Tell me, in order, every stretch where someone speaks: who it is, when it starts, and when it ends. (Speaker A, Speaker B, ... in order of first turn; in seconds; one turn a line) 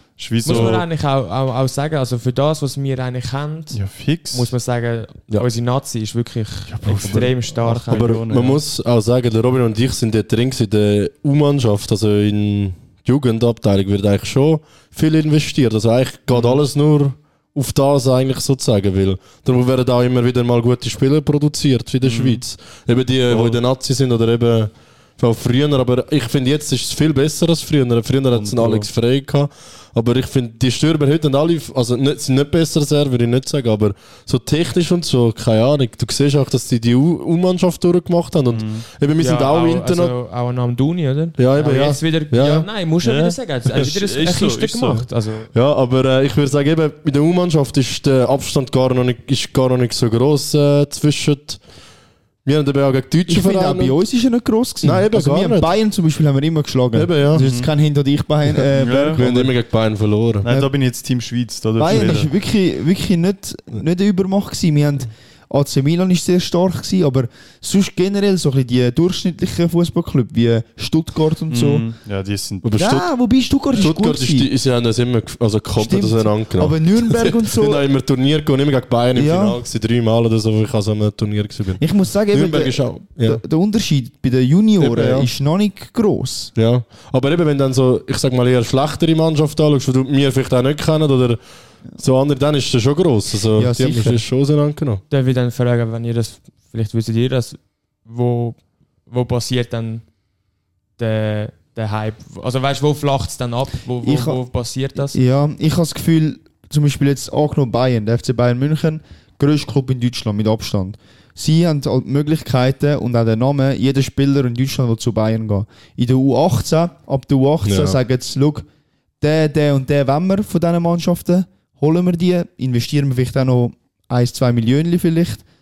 Speaker A: 0.2-0.8
Speaker B: 0.4-8.1
Speaker C: 0.5-0.8
Speaker A: 3.7-4.5
Speaker A: 6.7-8.6
Speaker C: 6.8-7.3
Speaker C: 7.9-40.1
Speaker A: 16.3-16.6
Speaker A: 22.0-22.4
Speaker A: 23.3-23.6
Speaker A: 28.3-28.9
Speaker A: 38.5-38.8
Speaker B: 39.2-45.5
Speaker C: 41.4-42.7
Speaker A: 43.0-45.0
Speaker C: 45.5-51.6
Speaker C: 52.4-54.0
Speaker D: 53.3-59.5
Speaker C: 54.8-55.7
Speaker C: 56.9-57.5
Speaker A: 57.3-57.7
Speaker A: 58.7-59.2
Speaker C: 59.1-60.5
Speaker A: 60.4-62.3
Speaker D: 60.4-60.7
Speaker D: 61.8-71.9
Speaker C: 61.9-62.1
Speaker A: 71.5-72.7
Speaker C: 72.6-73.1
Speaker D: 72.7-74.5
Speaker C: 73.7-83.4
Speaker D: 75.8-77.8
Speaker D: 79.1-79.6
Speaker D: 81.8-86.5
Speaker C: 84.8-85.3
Speaker C: 86.5-91.4
Speaker C: 92.0-95.0
Speaker D: 93.5-94.2
Speaker B: 95.1-100.0
Speaker B: 101.0-105.2
Speaker D: 104.0-104.4
Speaker D: 105.0-118.7
Speaker C: 117.6-118.0
Speaker D: 119.2-125.4